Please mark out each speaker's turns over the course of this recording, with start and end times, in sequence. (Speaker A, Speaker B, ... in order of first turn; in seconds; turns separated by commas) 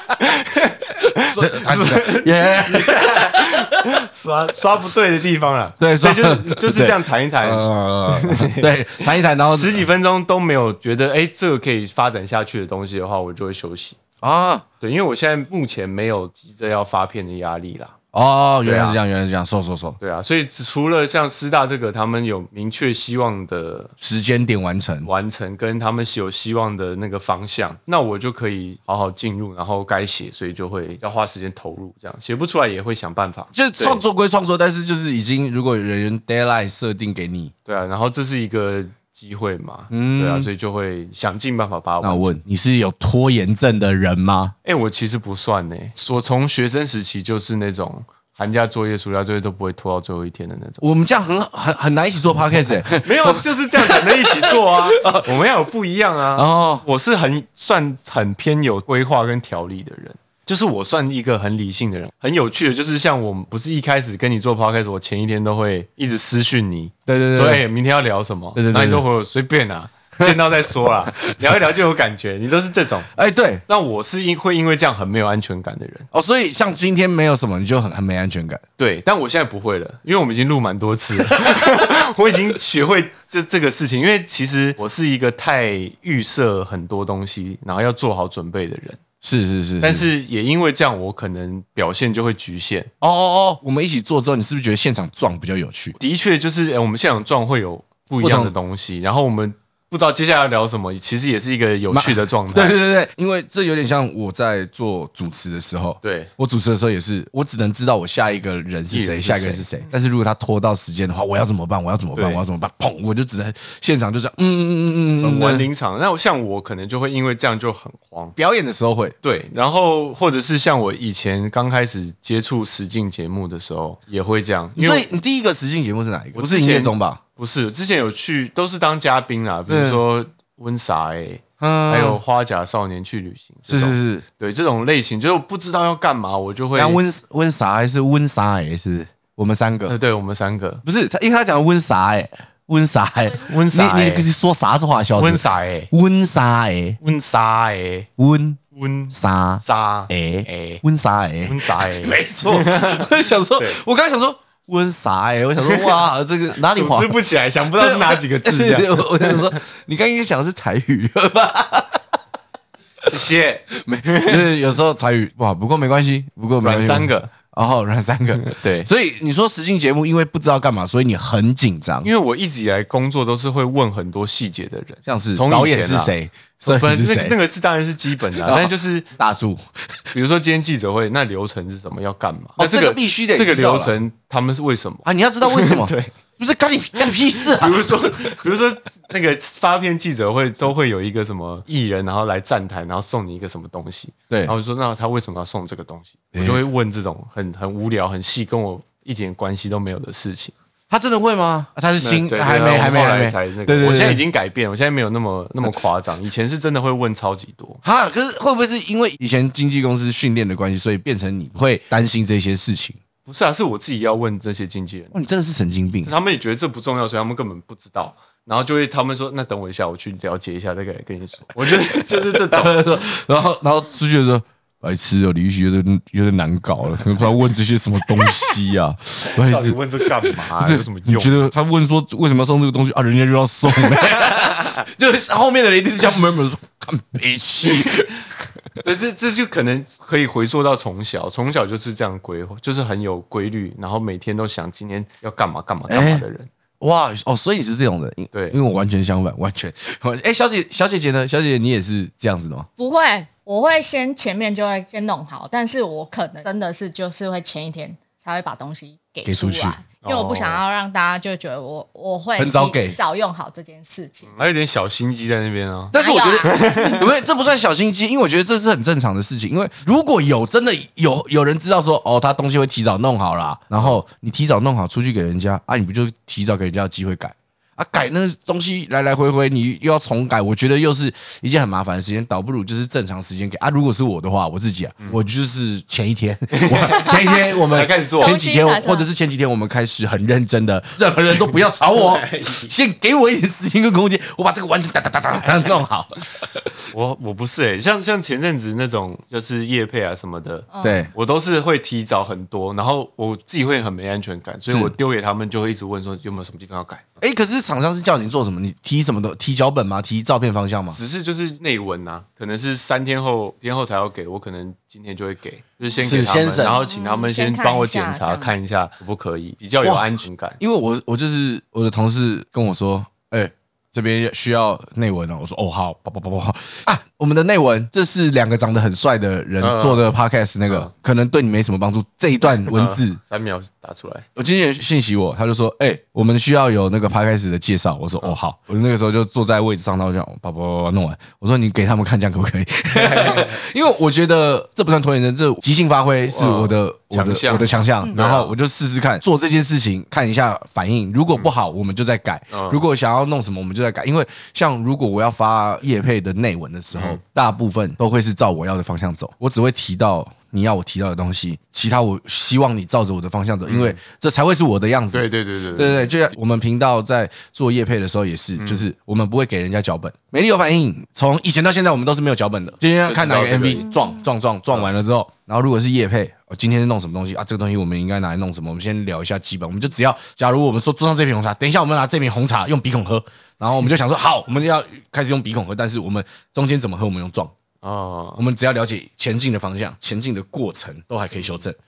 Speaker A: 0.1-14.0, Speaker B: 1.2-3.8, Speaker B: 5.8-9.9, Speaker B: 14.2-14.6, Speaker A: 14.8-17.9, Speaker B: 18.1-20.0, Speaker A: 18.6-19.0, Speaker A: 20.0-23.9, Speaker B: 24.0-25.1, Speaker A: 25.0-34.0, Speaker B: 33.5-37.5, Speaker A: 37.6-42.3, Speaker B: 39.9-40.5, Speaker B: 42.0-44.5, Speaker A: 44.6-50.8, Speaker B: 50.8-55.4, Speaker A: 52.9-73.1, Speaker B: 56.3-56.9, Speaker B: 67.1-67.6, Speaker B: 68.5-69.0, Speaker B: 73.1-73.6, Speaker A: 73.7-76.1, Speaker B: 76.1-78.6, Speaker A: 78.8-89.0, Speaker B: 81.3-81.6, Speaker B: 89.2-90.1, Speaker A: 89.8-92.9, Speaker B: 93.0-96.0, Speaker A: 96.0-102.8, Speaker B: 98.2-98.5, Speaker B: 101.9-115.7, Speaker A: 106.0-106.3, Speaker A: 108.9-109.8, Speaker A: 112.1-112.4, Speaker A: 115.2-118.3, Speaker B: 118.4-119.1, Speaker A: 119.2-125.1, Speaker B: 124.8-127.2, Speaker A: 126.3-137.0, Speaker B: 129.7-130.0, Speaker B: 131.6-132.2, Speaker B: 133.7-134.2, Speaker B: 136.8-140.0, Speaker A: 139.9-140.8, Speaker B: 140.8-147.0, Speaker A: 143.4-144.3, Speaker A: 145.2-145.9, Speaker A: 147.0-148.1, Speaker B: 148.2-148.6, Speaker A: 148.7-150.8, Speaker B: 149.1-157.1, Speaker A: 151.5-153.8, Speaker A: 155.6-156.0, Speaker A: 156.6-159.6, Speaker B: 157.8-162.0, Speaker A: 163.1-164.5, Speaker B: 163.7-172.1, Speaker A: 166.6-167.3, Speaker A: 168.4-168.9, Speaker A: 172.0-179.1, Speaker B: 175.1-177.4, Speaker B: 178.4-180.0, Speaker A: 180.1-186.1, Speaker B: 182.6-184.0, Speaker B: 185.0-188.4, Speaker A: 187.1-200.5, Speaker B: 196.3-196.6, Speaker B: 200.9-204.2, Speaker A: 202.0-207.8, Speaker B: 207.8-213.0, Speaker A: 213.2-215.1, Speaker B: 215.1-216.1, Speaker A: 216.0-223.0, Speaker B: 221.7-238.6, Speaker A: 229.4-231.5, Speaker A: 234.0-234.7, Speaker A: 238.8-246.5, Speaker B: 245.9-246.2, Speaker B: 246.8-252.7, Speaker A: 248.3-248.6, Speaker C: 252.8-264.4, Speaker B: 259.2-259.8, Speaker A: 260.0-260.6, Speaker B: 262.4-263.0, Speaker A: 264.3-267.1, Speaker B: 265.9-296.8, Speaker C: 265.9-267.0, Speaker A: 286.5-288.4, Speaker C: 288.2-289.1, Speaker A: 292.0-292.7, Speaker A: 296.9-307.1, Speaker C: 300.7-301.0, Speaker B: 300.8-301.1, Speaker B: 307.2-311.0, Speaker A: 310.9-320.6, Speaker B: 316.0-316.8, Speaker C: 316.6-318.5, Speaker B: 320.6-333.2, Speaker A: 329.6-330.1, Speaker A: 332.7-334.2, Speaker B: 334.4-387.5, Speaker A: 343.0-343.5, Speaker A: 346.2-348.5, Speaker A: 352.5-352.8, Speaker A: 356.9-357.2, Speaker A: 363.7-364.0, Speaker A: 365.1-366.1, Speaker A: 368.6-368.9, Speaker A: 373.1-373.9, Speaker A: 387.8-388.4, Speaker B: 388.4-391.8